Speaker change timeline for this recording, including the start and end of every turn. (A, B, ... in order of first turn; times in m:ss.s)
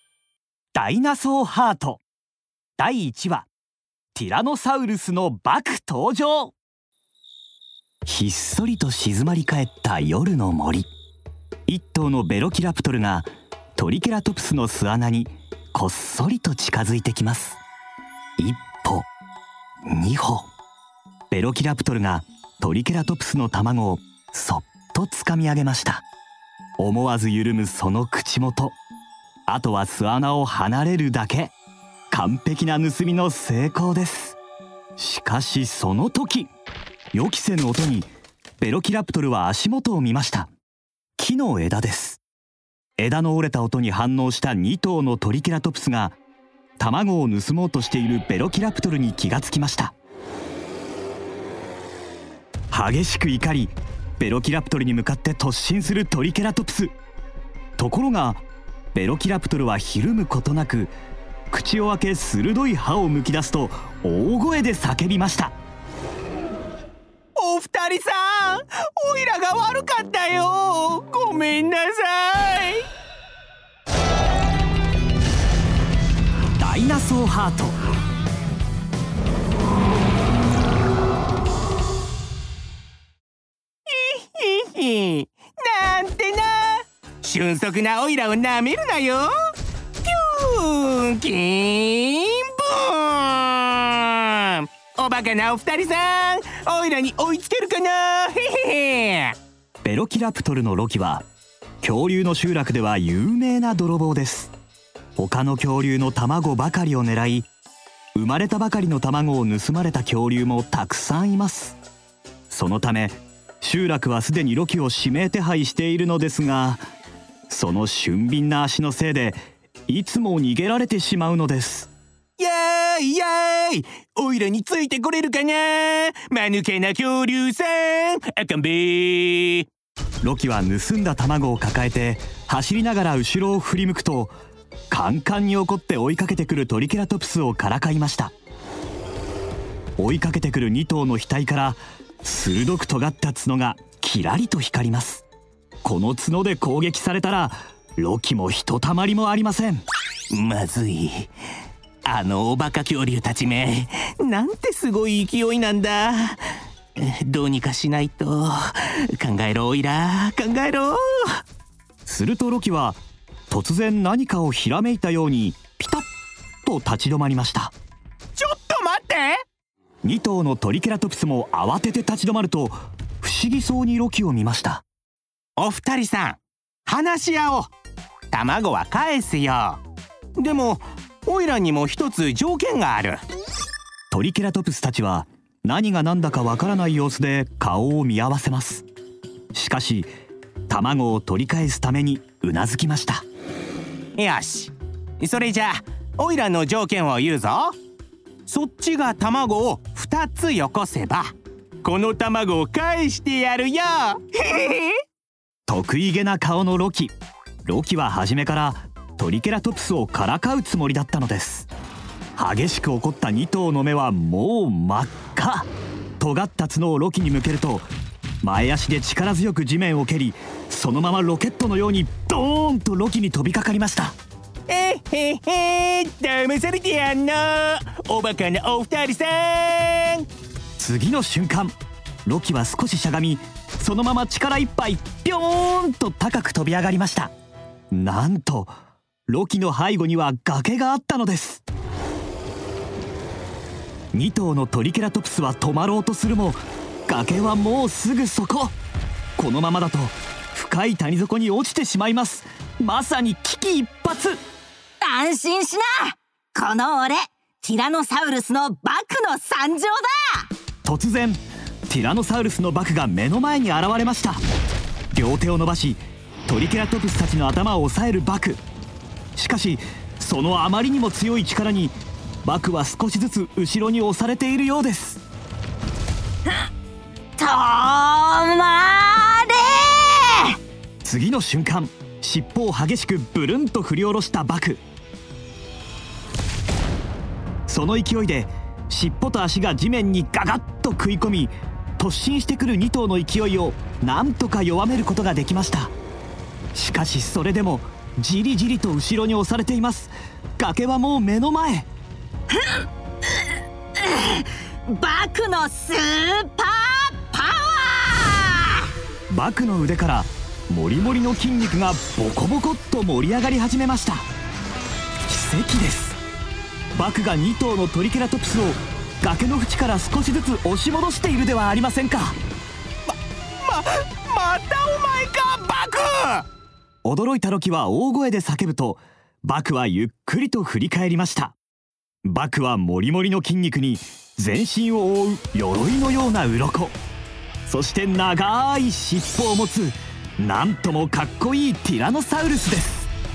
0:00.7-0:02.0 A
0:02.8-0:03.5 A
0:04.1-0:06.5 A
0:08.1-0:10.9 A
0:11.7-0:17.6 A
0:18.4-0:19.1 A
0:19.9-0:20.5 A
0:21.3-0:26.0 A
0:26.8-0:28.8 A
0:29.5-0:31.5 A
0:32.1-0:34.4 A
0:35.0-0:36.5 A
0:37.1-0:38.1 A
0:38.6-0:40.5 A
0:41.2-0:42.2 A
0:43.0-0:46.2 A
0:46.8-0:49.9 A
0:52.7-0:56.9 A
0:57.8-1:00.9 A
1:01.5-1:05.5 A
1:07.4-1:12.9 B
1:16.6-1:17.8 A
1:23.9-1:29.3 B
1:30.0-1:39.4 B
1:39.8-1:41.2 A
1:41.8-1:44.5 A
1:45.2-1:47.5 A
1:48.2-1:51.8 A
1:52.5-1:56.8 A
1:57.5-2:01.9 A
2:02.4-2:09.7 B
2:10.2-2:14.3 A
2:14.9-2:18.3 A
2:20.0-2:25.2 A
2:25.8-2:29.8 A
2:30.3-2:31.3 B
2:32.0-2:36.4 B
2:37.0-2:41.4 B
2:42.1-2:46.1 A
2:46.6-2:47.7 A
2:48.4-2:49.4 B
2:50.0-2:54.8 A
2:55.6-2:57.7 B
2:58.3-2:59.8 B
3:00.4-3:03.2 B
3:04.1-3:08.8 A
3:09.5-3:10.1 A
3:10.7-3:13.2 A
3:14.2-3:17.8 B
3:18.5-3:25.0 B
3:25.7-3:27.1 A
3:27.6-3:31.7 A
3:32.4-3:35.7 A
3:36.2-3:37.9 A
3:38.4-3:44.2 A
3:44.7-3:50.3 B
3:50.8-3:51.8 A
3:52.3-3:57.3 A
3:57.9-3:58.7 A
3:59.3-4:01.6 A
4:04.1-4:08.7 A
4:09.4-4:14.4 A
4:15.0-4:20.5 C
4:20.8-4:24.4 A
4:25.1-4:28.6 A
4:29.4-4:35.2 A
4:37.4-4:40.6 C
4:41.0-4:44.8 A
4:47.7-4:55.9 A
4:56.7-5:01.9 A
5:02.5-5:08.9 C
5:09.3-5:14.2 A
5:15.3-5:16.2 A
5:16.9-5:22.4 A
5:23.6-5:26.5 B
5:27.0-5:31.6 A
5:32.2-5:37.0 A
5:37.7-5:43.1 A